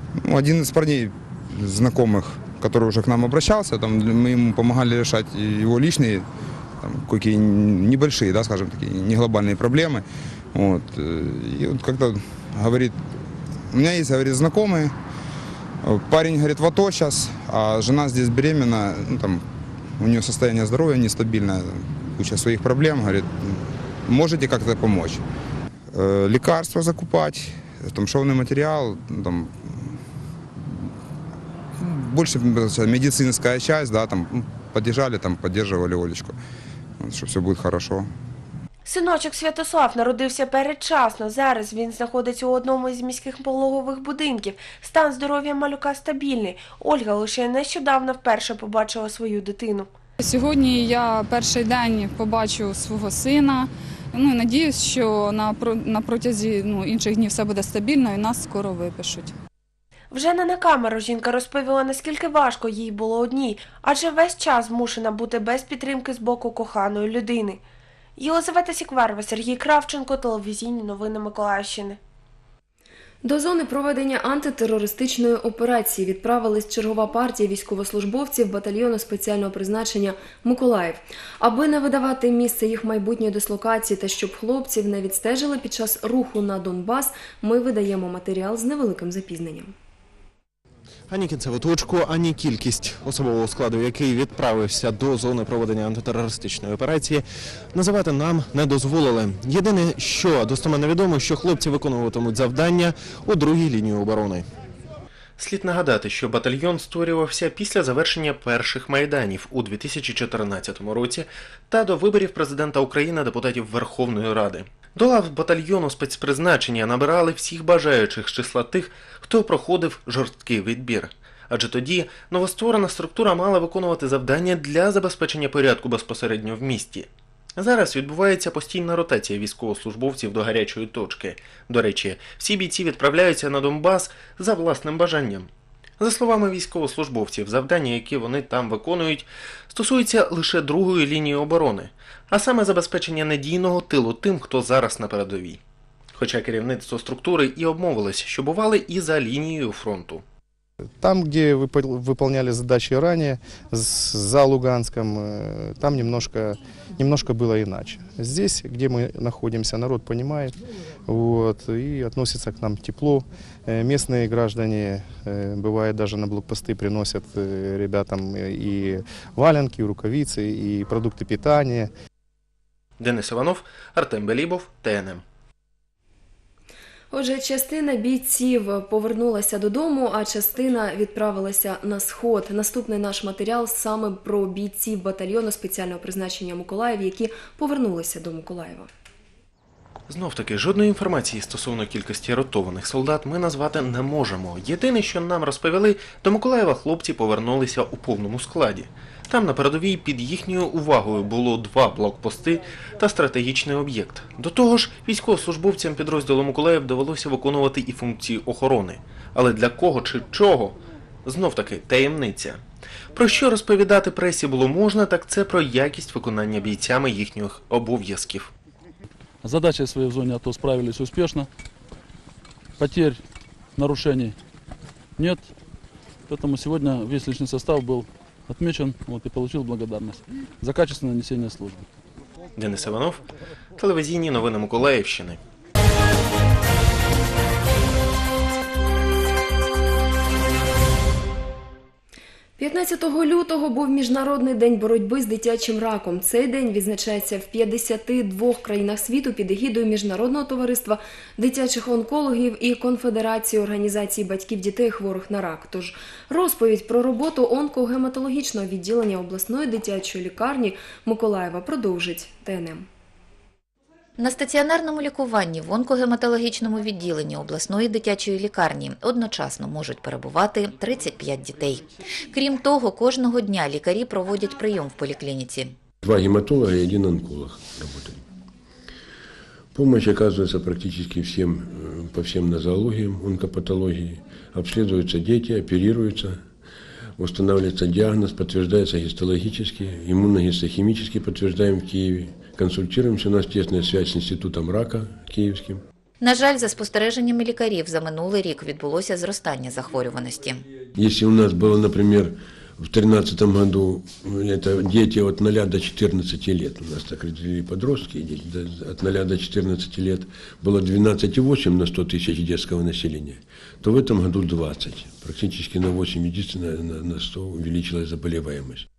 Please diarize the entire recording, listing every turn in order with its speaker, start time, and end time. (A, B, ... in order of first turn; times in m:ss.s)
0:00.2-0:06.3 A
0:06.8-0:14.9 A
0:15.8-0:19.4 A
0:20.0-0:25.2 A
0:25.9-0:30.0 A
0:30.6-0:31.0 A
0:31.8-0:36.4 A
0:37.0-0:38.1 A
0:38.8-0:49.9 B
0:50.2-0:59.3 C
1:00.1-1:07.6 B
1:08.2-1:12.0 B
1:13.2-1:29.7 D
1:31.1-1:36.4 E
1:38.5-1:40.7 E
1:41.2-1:41.7 E
1:43.3-1:43.8 E
1:45.4-2:25.6 F
2:26.1-2:30.2 F
2:31.0-2:51.9 G
2:53.0-2:55.2 F
2:57.1-3:08.9 D
3:10.1-3:32.6 F
3:33.1-3:38.5 F
3:39.4-3:41.5 H
3:42.8-3:43.2 H
3:43.8-3:44.4 H
3:45.2-3:45.5 H
3:46.3-3:51.8 H
3:52.6-3:53.2 F
3:53.8-3:55.4 F
4:02.6-4:22.9 D
4:24.2-4:35.8 I
4:36.0-4:38.2 J
4:39.7-4:46.5 J
4:47.2-4:55.8 J
4:56.2-5:00.6 I
5:00.9-5:18.9 J